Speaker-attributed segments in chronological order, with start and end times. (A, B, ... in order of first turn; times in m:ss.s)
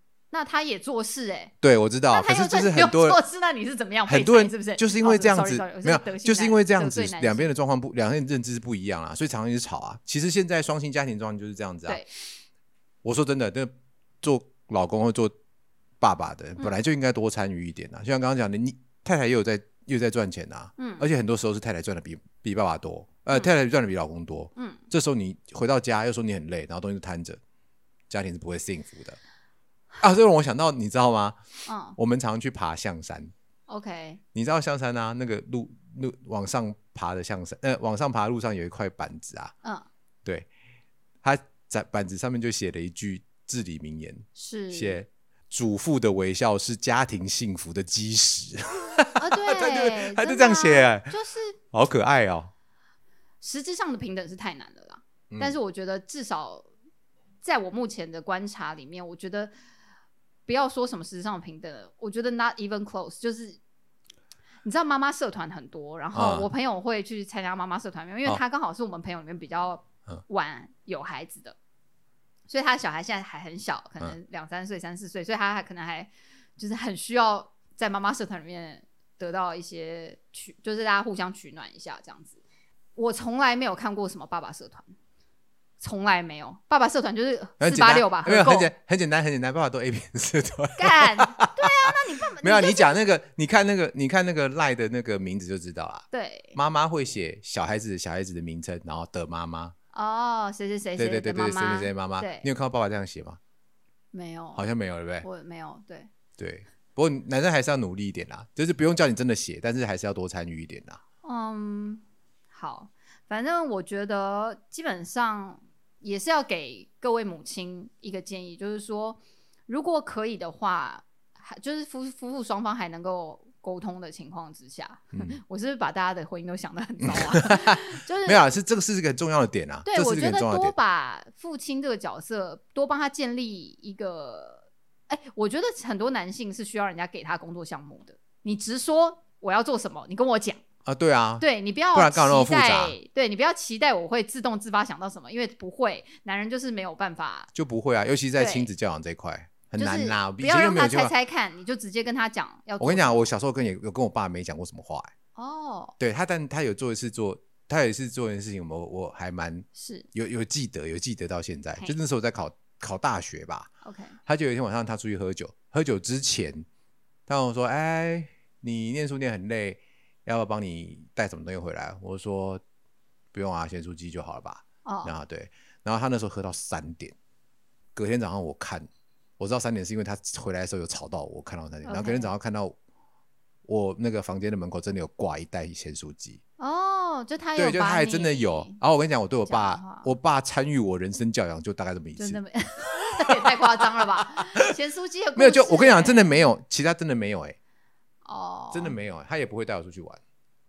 0:00.3-0:01.5 A
0:01.6-0:03.2 B
0:02.1-0:07.5 A
0:04.1-0:12.0 B
0:13.0-0:15.3 B
0:16.0-0:27.4 B
0:20.8-0:21.1 A
0:24.6-0:24.8 A
0:28.1-0:29.2 B
0:30.0-0:31.4 B
0:31.7-0:32.0 A
0:32.0-0:33.3 B
0:33.7-0:34.2 A
0:34.3-0:39.5 B
0:41.2-0:51.1 B
0:44.4-0:45.0 A
0:49.2-0:51.6 A
0:51.7-0:52.5 B
0:53.4-0:56.7 A
0:55.3-0:55.6 B
0:57.4-0:59.5 A
1:00.5-1:03.6 A
1:04.6-1:11.6 A
1:06.1-1:06.5 B
1:12.5-1:22.4 A
1:23.0-1:24.9 A
1:25.8-1:28.7 A
1:27.6-1:31.9 B
1:30.8-1:33.0 A
1:32.4-1:39.7 B
1:36.1-1:36.6 A
1:39.9-1:42.5 A
1:41.0-1:43.4 B
1:44.1-1:44.6 A
1:44.5-1:45.2 B
1:45.2-1:46.1 A
1:46.4-1:51.0 B
1:51.2-2:08.4 A
2:05.1-2:05.4 B
2:07.0-2:10.7 B
2:09.8-2:20.6 A
2:20.8-2:23.0 B
2:21.4-2:27.5 A
2:27.5-2:31.1 B
2:28.4-2:28.7 A
2:29.8-2:33.2 A
2:32.8-2:35.1 B
2:35.4-2:36.0 A
2:36.0-2:43.7 B
2:39.7-2:40.1 A
2:43.8-2:44.2 A
2:44.2-2:46.6 B
2:47.3-2:52.6 B
2:53.3-2:57.1 B
2:54.8-2:55.2 A
2:57.9-2:58.9 B
2:59.4-3:02.8 B
3:01.8-3:02.3 A
3:03.6-3:06.4 B
3:06.6-3:08.8 A
3:07.6-3:12.4 B
3:09.4-3:10.1 A
3:12.2-3:16.4 A
3:13.1-3:14.0 B
3:15.4-3:17.6 B
3:18.2-3:19.0 A
3:18.7-3:20.2 B